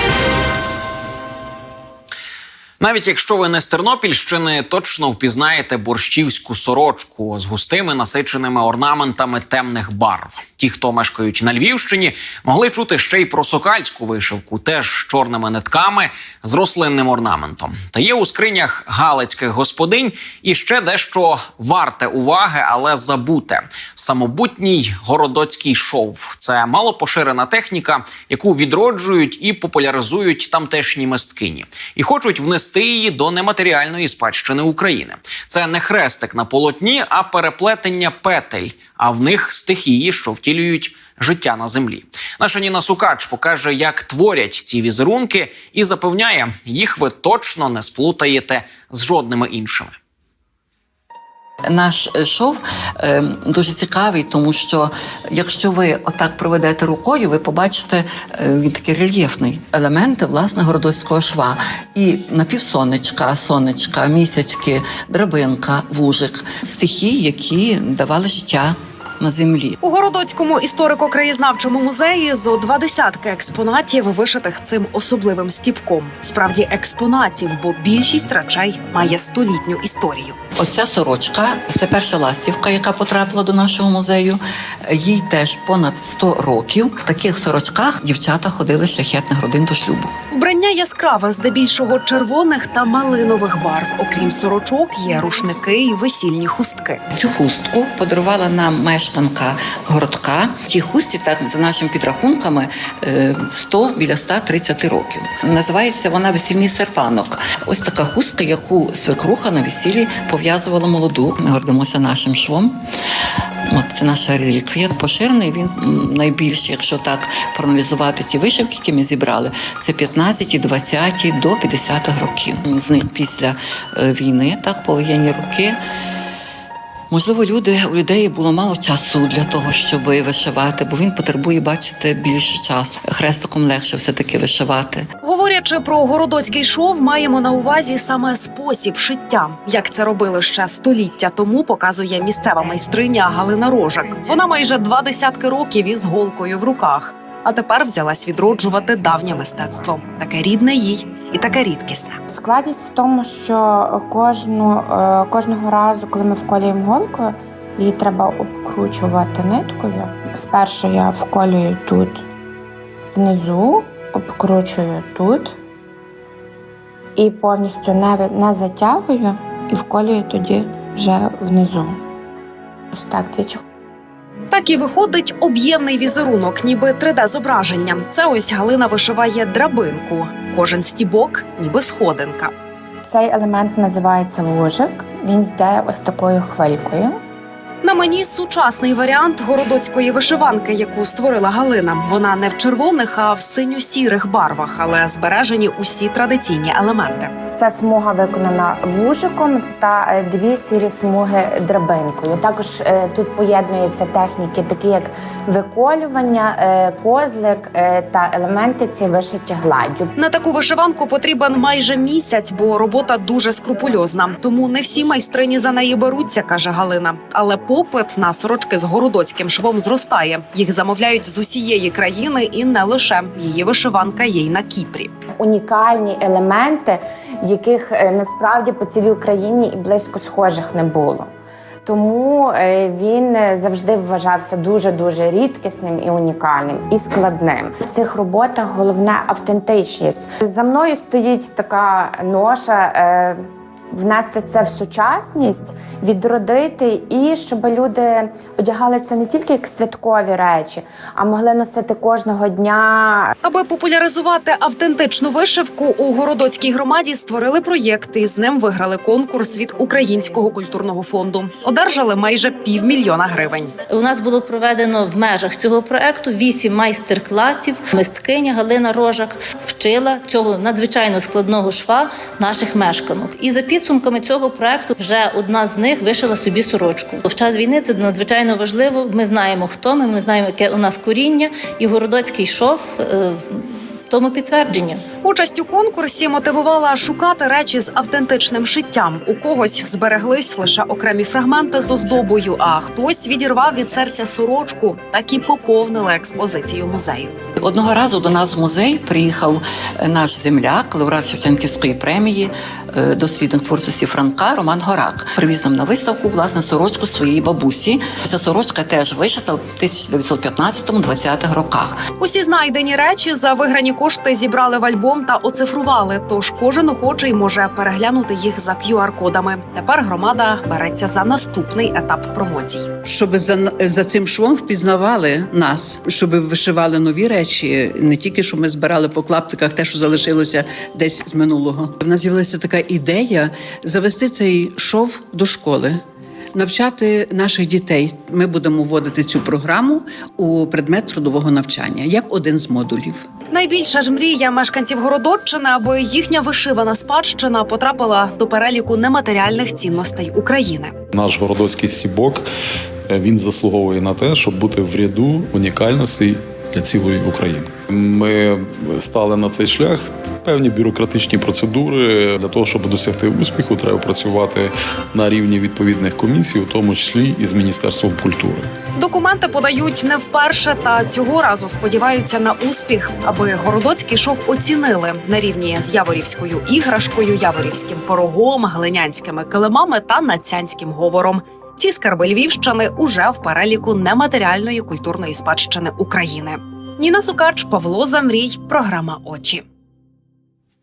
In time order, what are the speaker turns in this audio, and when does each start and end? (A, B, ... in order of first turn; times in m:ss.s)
0:02.8-0:49.9 A
0:51.7-1:09.8 B
1:09.8-1:20.4 C
1:20.6-1:30.1 B
1:30.3-1:37.0 C
1:37.1-1:52.8 B
1:53.7-2:05.8 B
2:07.1-2:15.1 B
2:15.2-2:32.2 C
2:32.3-2:42.2 D
2:43.1-2:45.6 D
2:47.2-2:52.0 D
2:52.9-2:53.6 D
2:54.5-3:02.5 C
3:03.0-3:07.2 D
3:07.8-3:17.3 C
3:17.6-3:30.1 D
3:30.2-3:45.1 C
3:45.4-3:51.3 D
3:51.8-4:03.4 D
4:03.9-4:13.3 D
4:13.4-4:23.7 C
4:23.9-4:45.0 E
4:45.2-4:57.3 C
4:57.6-5:12.0 B
5:12.2-5:22.9 C
5:23.0-5:36.0 F
5:36.5-5:43.2 F
5:43.5-5:50.9 C
5:51.1-5:52.5 G
5:53.1-6:08.7 G
6:09.0-6:29.6 C